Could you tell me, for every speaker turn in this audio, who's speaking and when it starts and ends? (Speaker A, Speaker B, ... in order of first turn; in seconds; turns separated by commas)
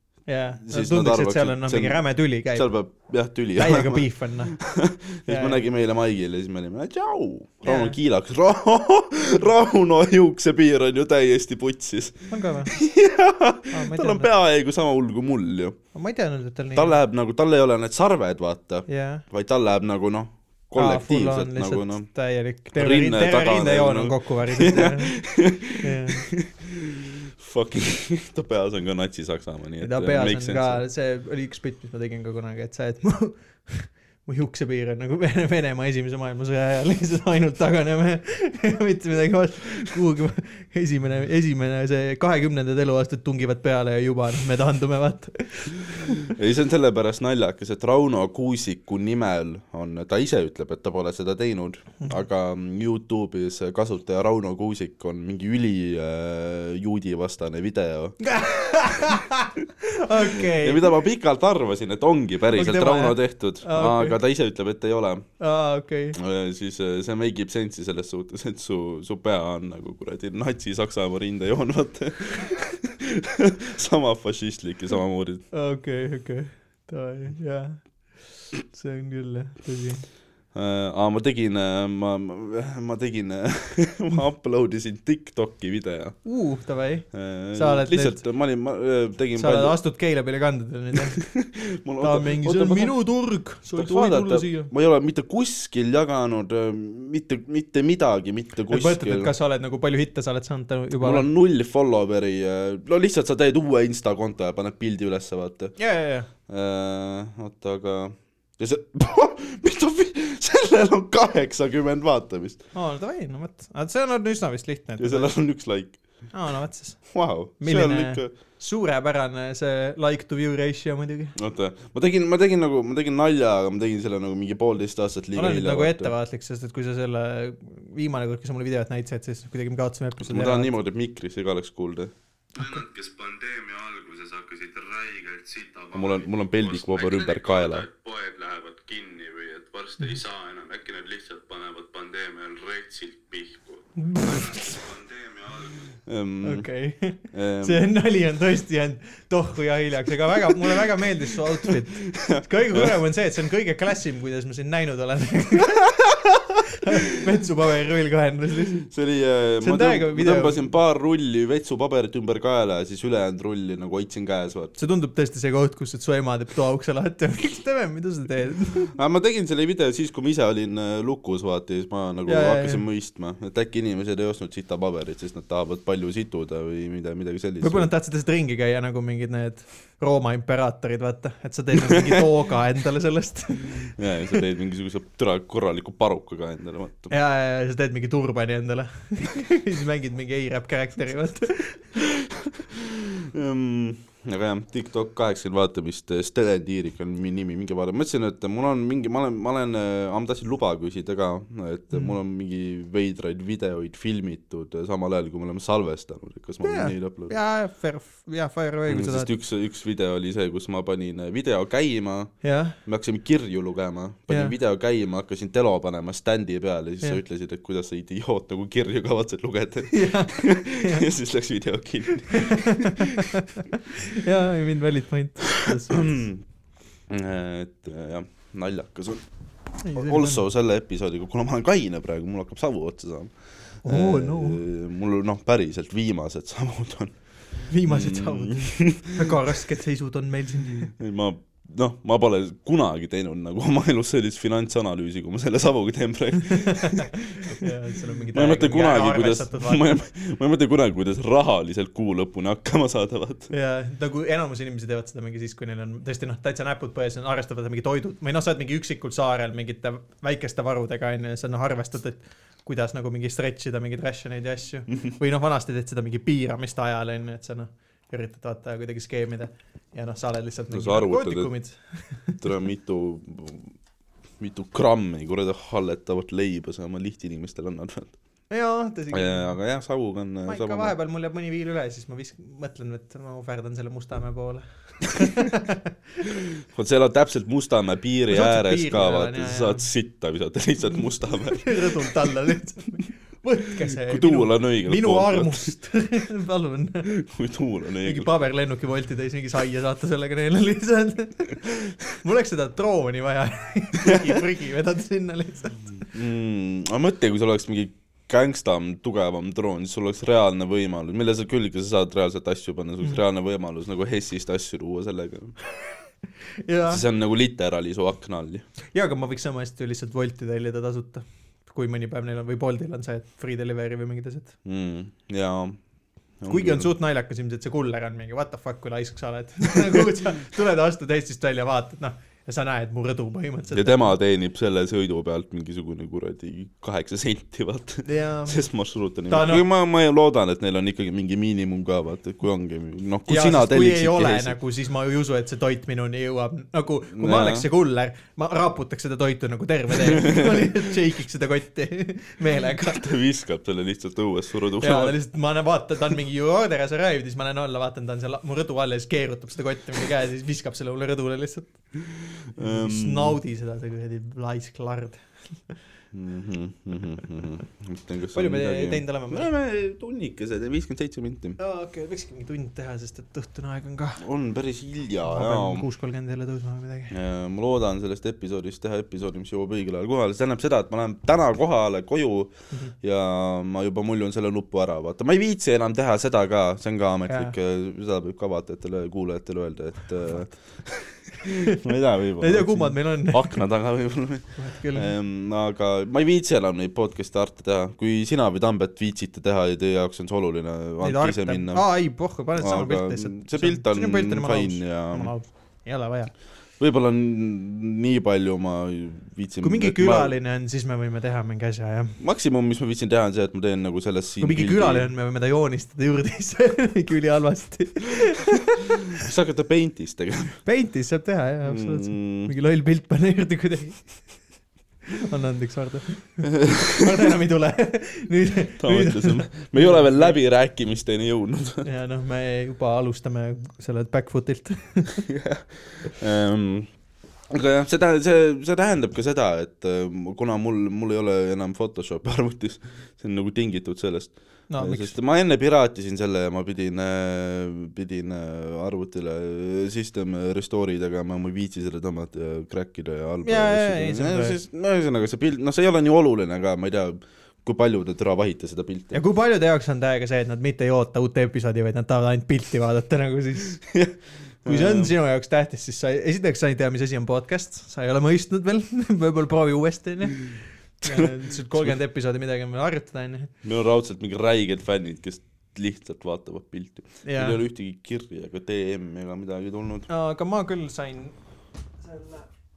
Speaker A: 0.3-2.7, Speaker B: 0.6-2.0, Speaker B: 2.5-15.8, Speaker A: 3.6-4.6, Speaker A: 5.3-5.6, Speaker A: 7.7-8.0, Speaker A: 12.3-12.8, Speaker A: 13.7-14.3, Speaker A: 15.9-16.9, Speaker B: 16.8-22.1, Speaker A: 18.9-19.2, Speaker A: 20.8-25.2, Speaker B: 22.8-30.8, Speaker A: 25.8-26.3, Speaker A: 29.8-46.3, Speaker B: 46.2-58.2, Speaker A: 58.2-60.9, Speaker B: 60.2-65.3, Speaker A: 62.5-64.2, Speaker A: 65.4-66.2, Speaker B: 66.2-75.4, Speaker A: 75.5-77.8, Speaker A: 78.4-80.0, Speaker B: 80.5-86.2, Speaker A: 86.3-88.2, Speaker B: 87.1-89.8, Speaker A: 89.4-91.2, Speaker B: 91.0-93.0, Speaker A: 92.0-94.7, Speaker B: 93.8-99.3, Speaker A: 98.7-101.3, Speaker B: 101.0-105.8, Speaker A: 105.8-106.3, Speaker B: 106.5-112.6, Speaker A: 112.7-115.3, Speaker B: 115.0-116.0, Speaker A: 116.3-117.0, Speaker B: 117.1-118.3, Speaker A: 117.6-121.3, Speaker B: 121.4-126.1, Speaker A: 125.3-130.8, Speaker B: 130.2-134.8, Speaker C: 134.8-135.9, Speaker B: 135.9-146.7, Speaker C: 138.0-140.0, Speaker A: 144.0-144.8, Speaker A: 146.4-158.8, Speaker B: 147.3-147.8, Speaker B: 150.3-150.8, Speaker B: 151.6-152.9, Speaker B: 158.8-164.8, Speaker A: 159.6-160.6, Speaker A: 164.8-168.9, Speaker B: 169.0-177.9, Speaker A: 172.3-172.8, Speaker A: 177.6-184.4, Speaker B: 181.8-182.3, Speaker B: 184.0-187.1, Speaker A: 187.1-191.9, Speaker B: 192.0-207.3, Speaker A: 206.6-209.3, Speaker B: 208.9-223.3, Speaker A: 212.4-212.8, Speaker A: 219.9-221.1, Speaker A: 222.3-226.3, Speaker B: 225.5-226.4, Speaker B: 227.1-229.2, Speaker A: 229.8-230.4, Speaker B: 229.9-233.3, Speaker A: 233.8-234.6, Speaker B: 233.8-237.2, Speaker A: 237.7-240.9, Speaker B: 237.8-239.5, Speaker B: 240.9-247.6, Speaker A: 246.5-249.9, Speaker B: 248.3-253.5, Speaker A: 253.5-272.4, Speaker B: 270.7-271.5, Speaker B: 272.4-273.8, Speaker B: 274.4-278.1, Speaker A: 278.5-279.6, Speaker B: 279.1-280.9, Speaker A: 280.5-285.9, Speaker B: 286.7-292.1, Speaker A: 288.3-289.9, Speaker A: 291.4-297.1, Speaker B: 293.9-295.7, Speaker B: 297.1-298.3, Speaker A: 298.0-301.7, Speaker A: 302.2-305.9, Speaker B: 306.1-315.6, Speaker A: 316.6-317.0, Speaker B: 316.9-318.6, Speaker A: 318.9-324.5, Speaker B: 324.6-325.8, Speaker B: 326.4-326.9, Speaker A: 326.5-334.1, Speaker B: 333.7-344.6, Speaker A: 338.1-338.6, Speaker A: 339.3-339.6, Speaker A: 343.3-353.0, Speaker B: 347.1-347.7, Speaker B: 349.9-350.9, Speaker B: 352.7-355.2, Speaker A: 354.8-361.8, Speaker B: 362.1-363.4, Speaker A: 362.6-365.7, Speaker B: 366.1-371.6, Speaker A: 368.3-369.5, Speaker A: 371.6-374.2, Speaker B: 374.2-375.9, Speaker A: 375.2-377.1, Speaker B: 377.1-401.8, Speaker A: 387.3-387.5, Speaker A: 391.4-391.8, Speaker A: 392.4-393.6, Speaker A: 394.6-395.1, Speaker A: 401.0-406.3, Speaker B: 402.6-405.3, Speaker B: 406.8-410.3, Speaker A: 409.6-412.2, Speaker B: 412.2-415.1, Speaker A: 414.4-419.1, Speaker B: 419.2-420.6, Speaker A: 420.7-424.1, Speaker B: 421.7-422.5, Speaker A: 425.2-430.4, Speaker B: 426.6-427.1, Speaker B: 428.8-431.9, Speaker A: 431.8-435.3, Speaker B: 435.2-436.9, Speaker B: 437.5-459.2, Speaker A: 444.7-445.1, Speaker A: 453.4-454.6, Speaker A: 459.1-463.8, Speaker B: 463.8-465.1, Speaker A: 464.7-473.5, Speaker B: 471.1-471.9, Speaker B: 473.6-480.1, Speaker A: 477.2-477.6, Speaker A: 480.1-481.3, Speaker A: 482.0-482.5